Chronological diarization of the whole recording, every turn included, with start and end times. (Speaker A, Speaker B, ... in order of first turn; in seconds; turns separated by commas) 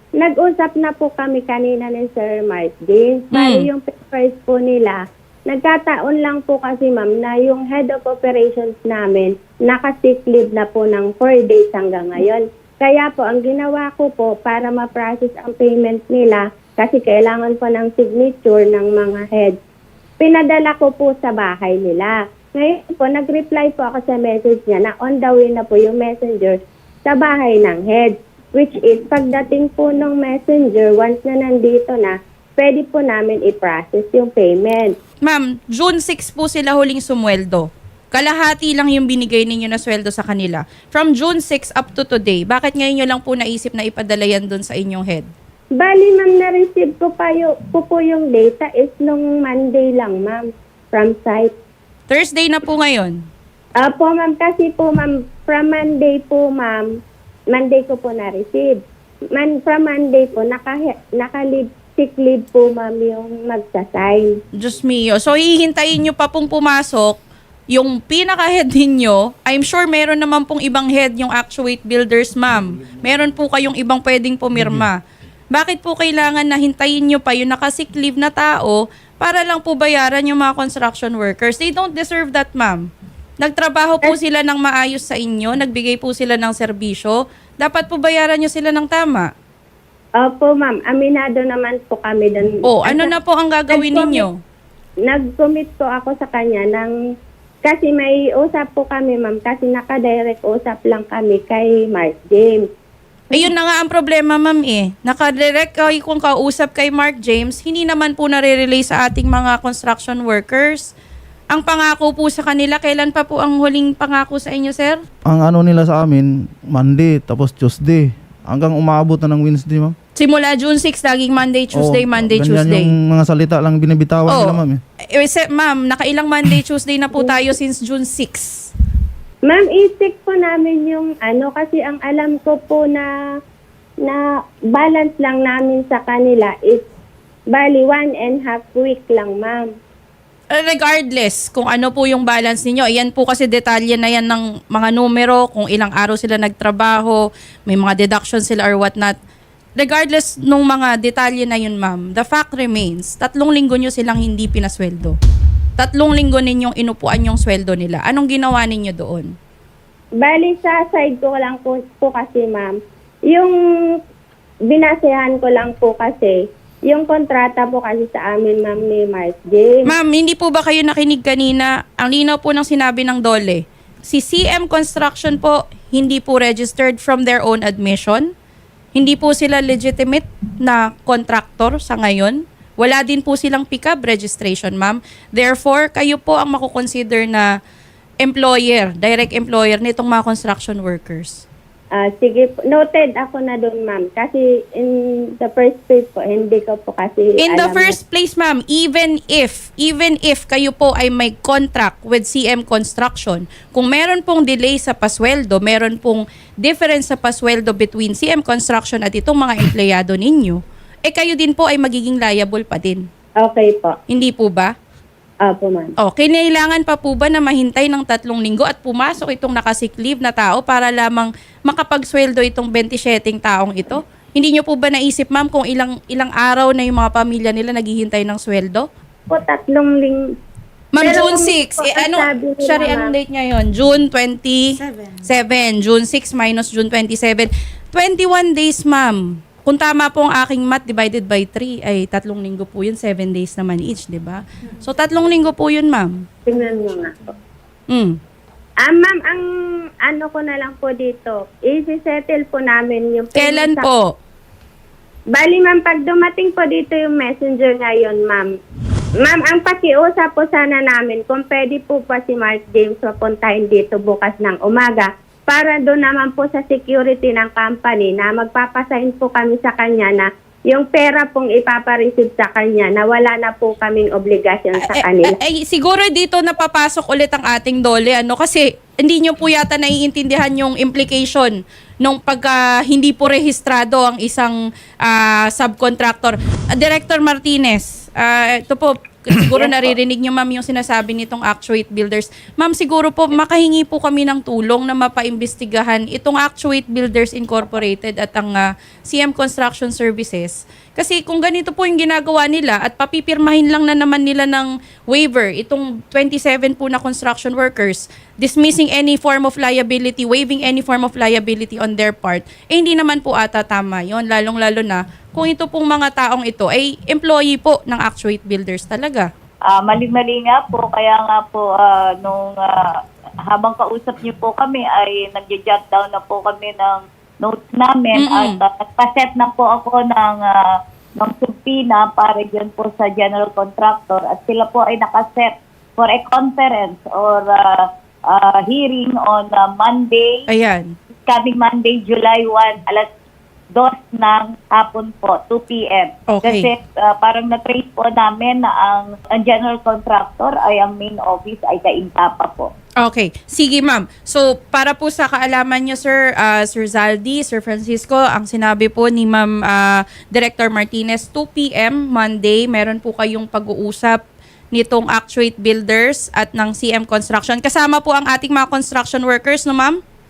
Speaker A: 0.2-19.6, Speaker B: 3.3-3.6, Speaker A: 20.2-34.9, Speaker B: 35.2-45.3, Speaker A: 45.8-51.5, Speaker B: 52.1-53.2, Speaker A: 53.8-56.9, Speaker A: 57.5-58.8, Speaker A: 59.3-64.4, Speaker B: 64.6-67.2, Speaker B: 67.7-75.0, Speaker C: 74.6-74.8, Speaker B: 75.5-82.9, Speaker B: 83.4-89.3, Speaker A: 90.2-93.1, Speaker B: 92.6-94.4, Speaker A: 93.7-94.2, Speaker A: 95.0-96.9, Speaker A: 97.6-102.7, Speaker B: 103.3-110.9, Speaker B: 111.5-115.0, Speaker C: 115.3-119.9, Speaker B: 120.2-122.9, Speaker C: 121.7-124.8, Speaker B: 124.3-124.6, Speaker B: 125.1-128.7, Speaker A: 129.5-133.1, Speaker A: 134.0-136.8, Speaker A: 137.5-139.7, Speaker B: 140.5-149.1, Speaker B: 149.8-155.2, Speaker B: 155.8-159.3, Speaker A: 160.2-162.7, Speaker A: 163.3-163.9, Speaker A: 164.7-166.4, Speaker A: 166.9-169.9, Speaker B: 169.8-178.3, Speaker B: 178.9-187.5, Speaker B: 188.2-191.4, Speaker A: 192.0-197.9, Speaker B: 197.4-213.0, Speaker A: 213.4-214.0, Speaker B: 214.1-214.7, Speaker A: 215.4-215.9, Speaker B: 216.0-228.9, Speaker A: 229.3-230.2, Speaker B: 230.9-246.2, Speaker A: 231.0-233.1, Speaker A: 246.4-247.3, Speaker B: 247.9-248.2, Speaker A: 248.8-249.4, Speaker A: 250.0-253.8, Speaker B: 253.3-254.1, Speaker A: 255.3-258.5, Speaker A: 259.2-275.4, Speaker B: 274.8-319.3, Speaker D: 319.7-340.5, Speaker B: 328.1-328.6, Speaker B: 340.5-340.9, Speaker D: 341.3-343.1, Speaker D: 343.7-352.7, Speaker B: 346.3-346.7, Speaker B: 353.0-364.2, Speaker B: 364.7-370.0